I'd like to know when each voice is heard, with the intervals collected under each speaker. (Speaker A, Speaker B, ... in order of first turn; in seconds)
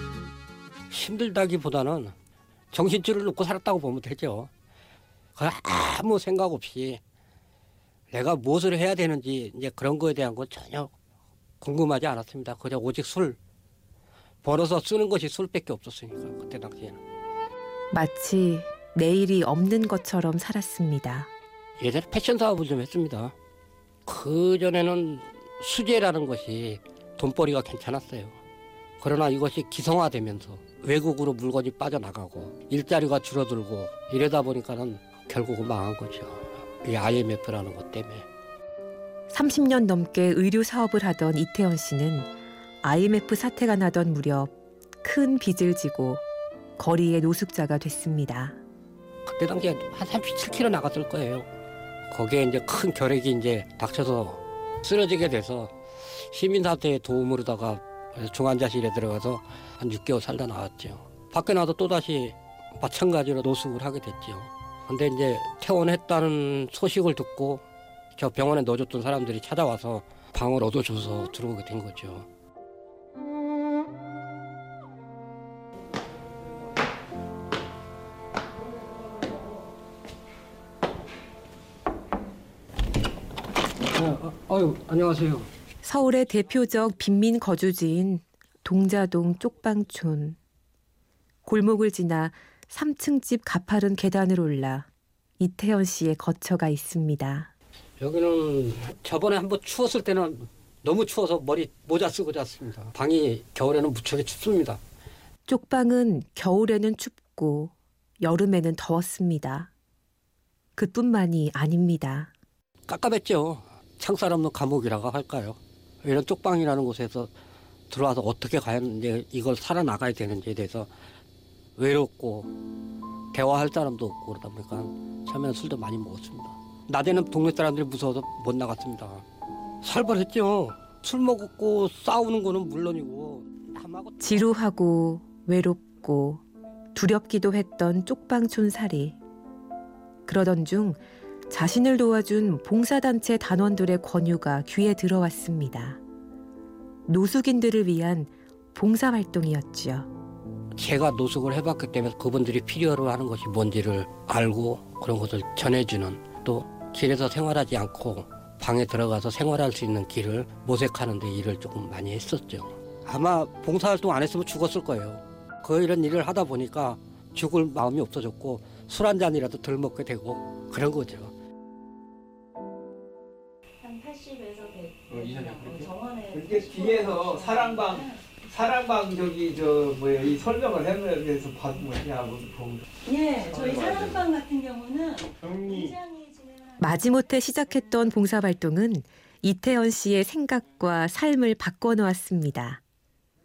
Speaker A: 0.9-2.1, 2.7-4.5, 5.3-7.0, 8.1-10.9, 11.6-13.4, 14.4-17.0, 21.8-23.3, 24.1-28.4, 29.0-38.2, 49.2-51.5, 52.1-67.6, 68.1-72.2, 83.9-85.5, 98.0-104.8, 112.9-117.3, 117.9-120.9, 121.8-122.5, 123.3-129.2, 129.8-134.5, 150.8-171.3
Speaker B: 17.9-21.3, 39.3-42.3, 42.8-46.2, 46.8-48.6, 85.8-90.4, 91.4-94.9, 95.4-97.5, 105.5-109.7, 110.8-112.3, 134.2-136.4, 136.9-139.2, 140.2-146.0, 147.1-150.1, 186.8-192.8
Speaker C: 173.8-178.3, 183.0-186.8
Speaker D: 175.1-182.8, 183.5-184.1, 185.4-185.9